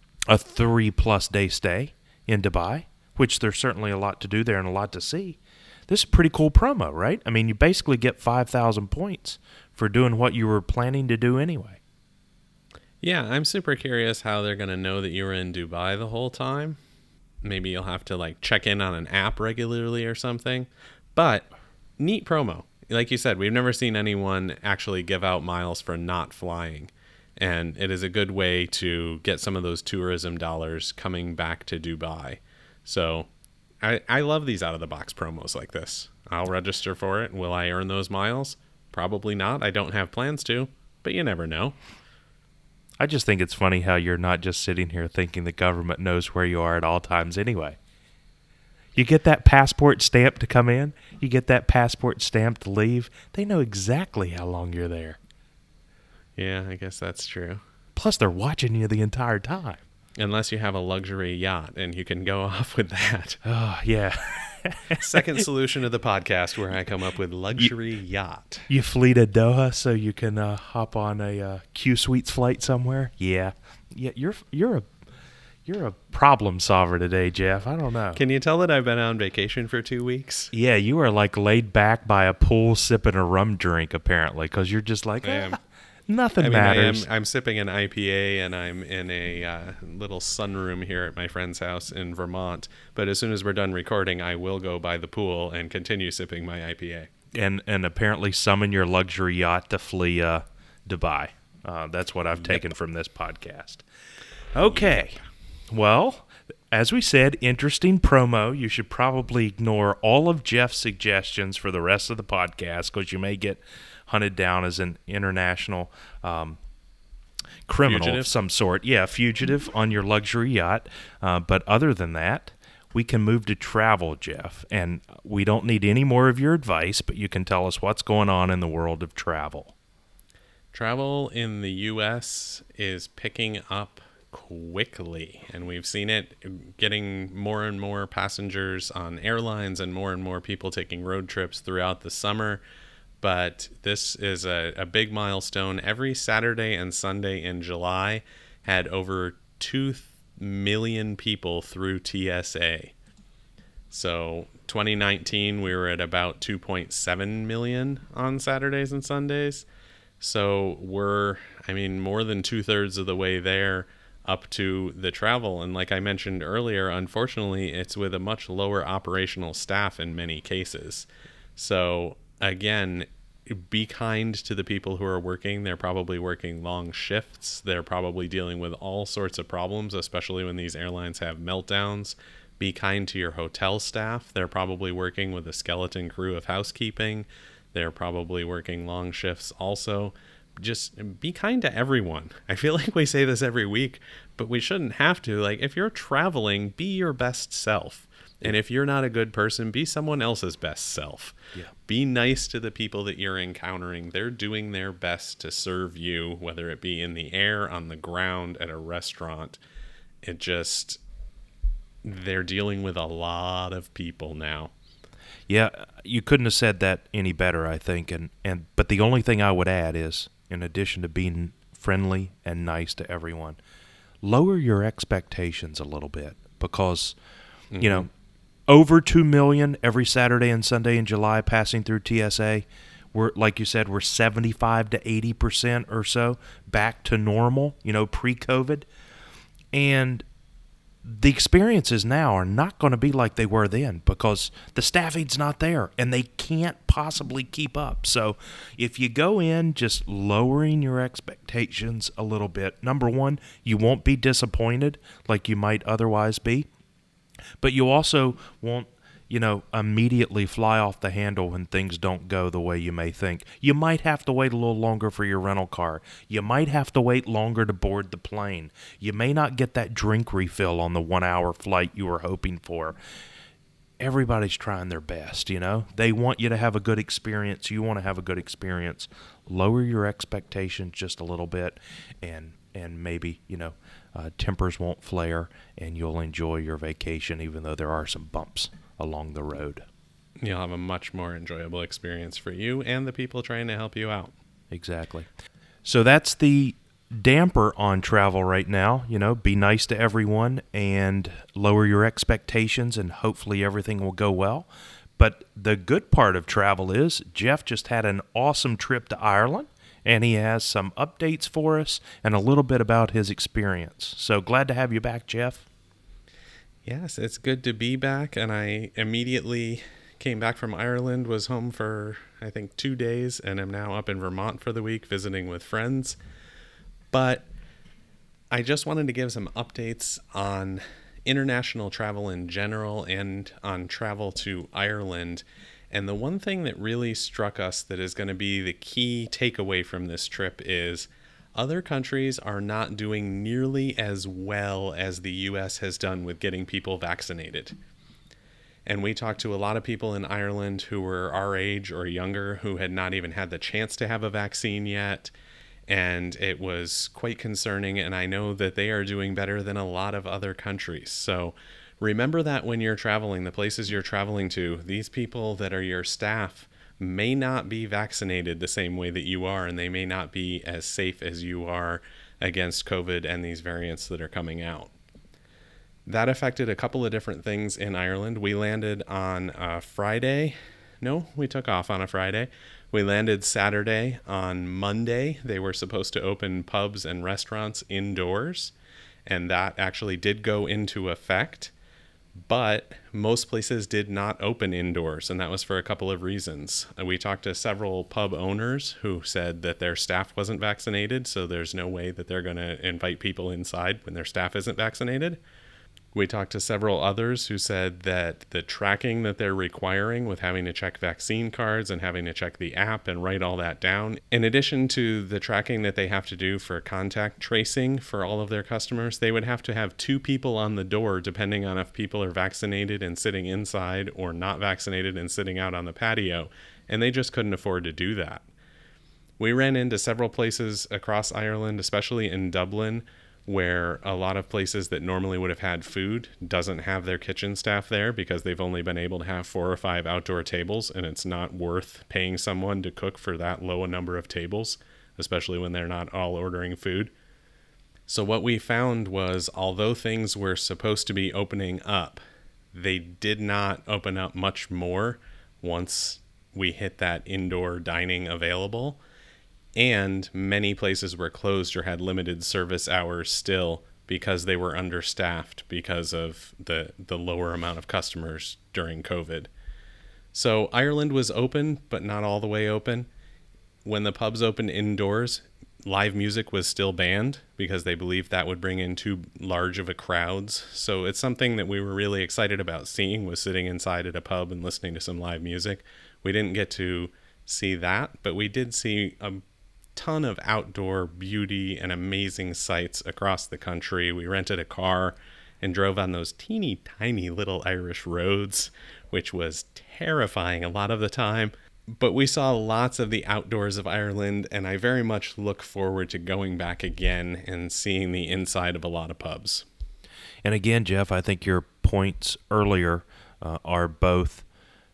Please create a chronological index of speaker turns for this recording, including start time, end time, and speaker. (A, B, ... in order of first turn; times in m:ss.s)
0:00.3-0:11.8 A
0:13.0-0:16.8 B
0:17.4-0:33.3 B
0:33.8-0:41.8 B
0:43.0-0:47.8 A
0:49.0-0:55.2 A
0:56.4-0:57.6 B
0:58.0-0:59.8 A
1:00.2-1:03.4 B
1:03.4-1:05.0 A
1:05.0-1:08.7 B
1:08.7-1:14.9 A
1:15.7-1:18.2 A
1:18.2-1:20.5 B
1:20.5-1:27.1 A
1:25.2-1:25.6 B
1:26.4-1:37.1 B
1:37.4-1:43.8 A
1:44.5-1:45.2 A
1:45.7-1:56.6 A
1:57.7-2:09.7 A
1:57.8-1:58.3 B
2:10.7-2:22.6 B
2:23.2-2:32.9 B
2:33.9-2:39.6 B
2:40.2-3:21.4 B
3:21.9-3:29.6 B
3:30.2-3:31.0 B
3:32.0-3:34.7 B
3:35.5-3:43.6 A
3:44.2-3:47.2 A
3:47.7-3:48.1 B
3:47.8-3:48.1 A
3:48.7-3:58.9 A
3:59.7-4:00.2 A
4:01.0-4:16.7 A
4:17.6-4:33.0 A
4:34.0-4:49.8 A
4:50.4-4:54.3 B
4:54.7-4:55.3 A
4:55.8-5:15.6 A
5:16.8-5:26.2 B
5:27.1-5:27.5 B
5:28.5-5:47.8 B
5:48.9-5:55.3 B
5:55.9-6:14.9 B
6:16.1-6:28.7 B
6:29.3-6:31.7 B
6:32.5-6:45.4 B
6:46.1-7:08.4 B
7:09.4-7:27.1 B
7:28.1-7:32.2 B
7:32.7-7:39.0 B
7:39.8-7:49.5 B
7:50.3-7:53.1 B
7:53.8-8:09.4 B
8:10.0-8:29.6 B
8:30.4-8:34.4 A